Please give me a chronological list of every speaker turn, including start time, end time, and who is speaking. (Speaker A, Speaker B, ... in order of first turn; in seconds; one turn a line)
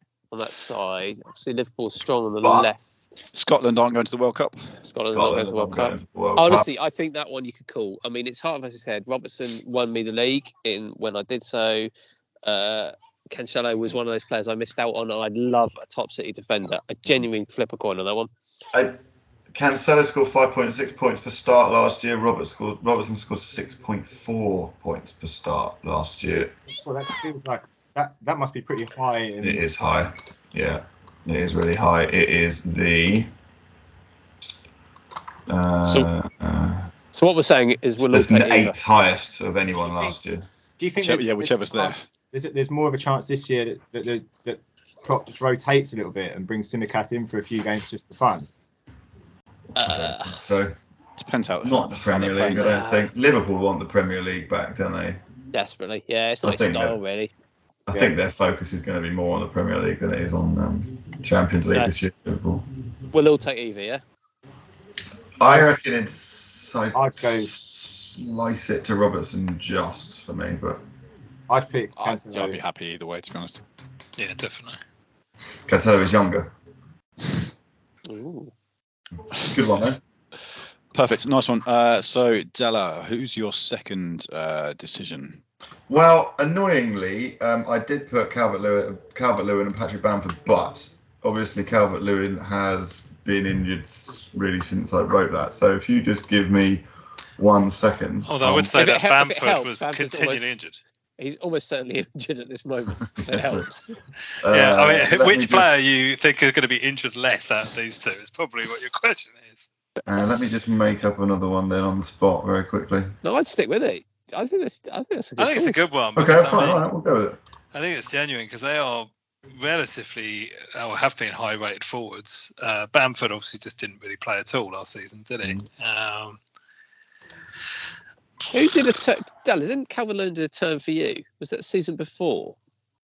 Speaker A: 0.3-3.1
Speaker B: 2.4-2.7
Speaker C: 3.3-4.9
Speaker A: 4.9-11.9
Speaker B: 5.1-6.7
Speaker A: 12.4-18.3
Speaker B: 19.5-26.5
Speaker D: 26.7-29.6
Speaker B: 29.4-33.3
Speaker B: 35.5-36.9
Speaker A: 35.9-36.1
Speaker A: 37.1-38.8
Speaker B: 38.0-40.5
Speaker D: 39.8-40.2
Speaker D: 40.8-48.5
Speaker C: 41.0-42.0
Speaker A: 49.8-50.4
Speaker B: 49.8-50.8
Speaker C: 51.2-52.8
Speaker B: 51.6-55.2
Speaker A: 52.5-53.1
Speaker A: 55.5-57.3
Speaker B: 56.4-57.0
Speaker B: 57.9-62.7
Speaker A: 63.1-64.0
Speaker B: 65.4-70.8
Speaker D: 66.9-67.5
Speaker D: 71.5-72.6
Speaker C: 72.0-73.6
Speaker E: 74.2-74.8
Speaker B: 75.7-76.5
Speaker A: 78.1-78.5
Speaker B: 79.3-80.0
Speaker C: 80.9-85.4
Speaker B: 85.9-96.8
Speaker B: 97.4-98.7
Speaker E: 98.3-100.8
Speaker A: 98.7-100.6
Speaker A: 101.2-104.0
Speaker B: 103.2-103.7
Speaker B: 104.4-105.8
Speaker E: 104.5-109.7
Speaker B: 110.1-113.2
Speaker A: 113.2-115.8
Speaker E: 115.4-116.8
Speaker B: 116.2-117.4
Speaker E: 117.7-126.4
Speaker A: 128.5-132.6